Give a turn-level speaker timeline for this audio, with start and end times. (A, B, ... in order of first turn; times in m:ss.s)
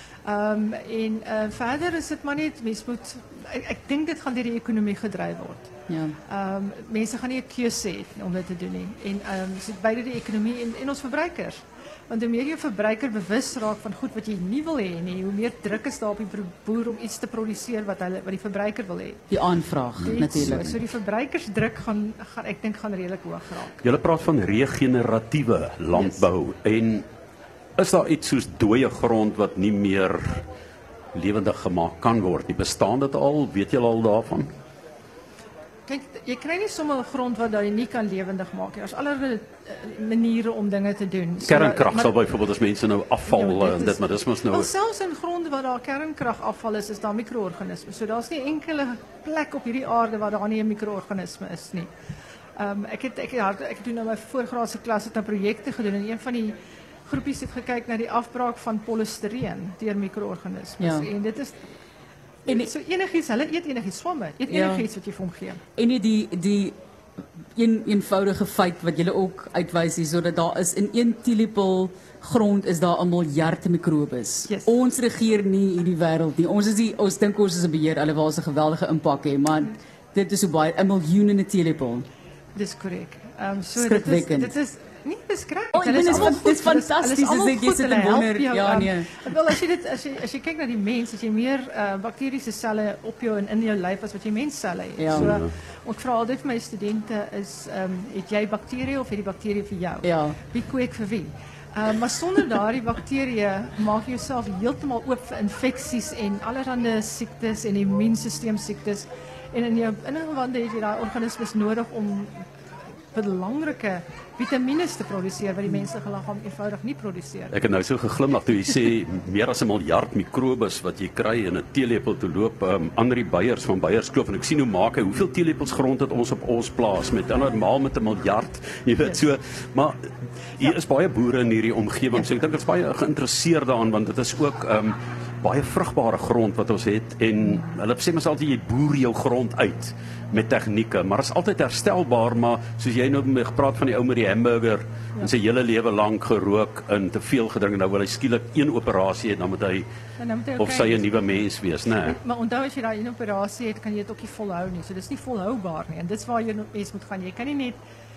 0:00.2-0:05.7 A
0:05.9-0:06.2 B
0:06.3-0:19.2 A
0:19.3-0:20.7 B
0:20.0-0:20.7 C
0:20.0-0:23.8 A
0:23.8-0:27.0 C
0:26.0-0:26.3 A
0:27.8-0:30.4 C
0:31.2-0:34.5 C
0:35.9-0:42.2 A
0:41.4-0:44.7 C
0:43.3-0:51.9 A
0:52.6-0:56.6 A
0:57.1-1:01.6 A
1:00.8-1:01.1 B
1:02.5-1:05.6 A
1:04.5-1:04.9 B
1:05.8-1:06.8 B
1:07.6-1:22.1 B
1:22.6-1:52.4 A
1:23.8-1:24.5 B
1:25.7-1:29.2 B
1:35.0-1:35.3 B
1:35.1-1:35.5 C
1:40.0-1:40.4 B
1:53.1-1:57.5 A
1:57.5-2:10.0 C
2:10.6-2:29.9 C
2:30.2-2:31.2 A
2:30.6-2:32.2 C
2:32.0-2:37.8 A